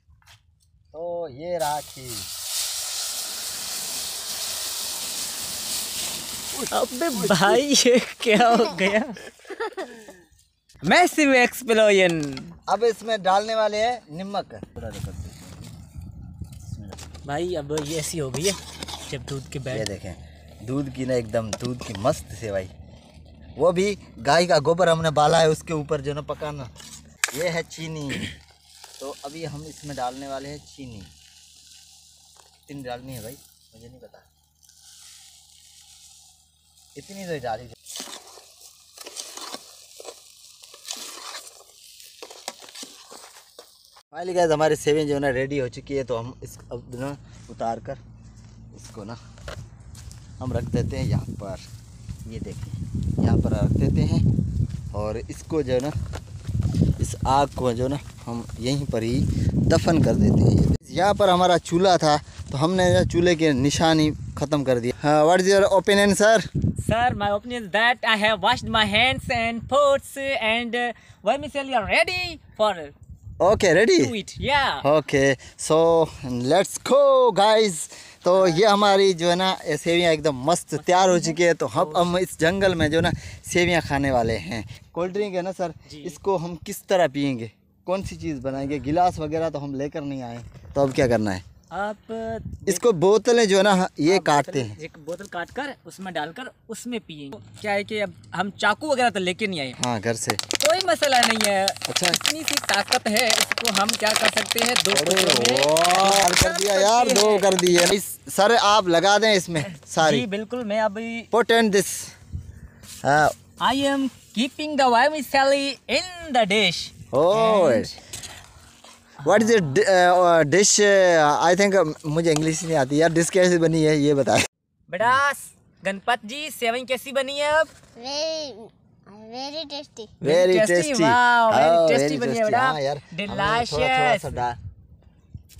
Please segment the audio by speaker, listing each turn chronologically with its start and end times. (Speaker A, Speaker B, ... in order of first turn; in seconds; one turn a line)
Speaker A: 0.9-2.3
Speaker A: 6.5-7.6
Speaker B: 6.7-9.7
Speaker B: 10.8-12.5
Speaker A: 12.7-15.7
Speaker A: 16.6-17.0
Speaker B: 17.2-19.9
Speaker A: 19.7-22.7
Speaker A: 23.6-26.7
Speaker A: 27.3-28.3
Speaker A: 29.0-31.1
Speaker A: 32.7-34.2
Speaker A: 36.9-37.8
Speaker A: 44.1-48.0
Speaker A: 48.7-49.2
Speaker A: 50.4-51.6
Speaker A: 52.2-54.2
Speaker A: 54.9-55.9
Speaker A: 57.0-66.5
Speaker B: 66.8-72.9
Speaker A: 73.4-74.1
Speaker B: 74.0-74.8
Speaker A: 74.8-91.4
Speaker B: 78.3-78.6
Speaker B: 80.8-82.1
Speaker B: 85.9-86.2
Speaker B: 91.7-92.8
Speaker A: 92.7-94.8
Speaker B: 94.0-99.8
Speaker A: 99.8-100.4
Speaker B: 100.6-107.9
Speaker A: 101.9-102.2
Speaker A: 104.9-110.2
Speaker B: 109.6-111.3
Speaker A: 111.3-112.1
Speaker A: 113.0-113.3
Speaker B: 113.6-118.0
Speaker A: 117.1-117.9
Speaker B: 119.2-119.8
Speaker A: 119.2-124.5
Speaker B: 124.9-127.7
Speaker C: 128.0-130.2
Speaker B: 130.2-134.4
Speaker A: 130.2-134.6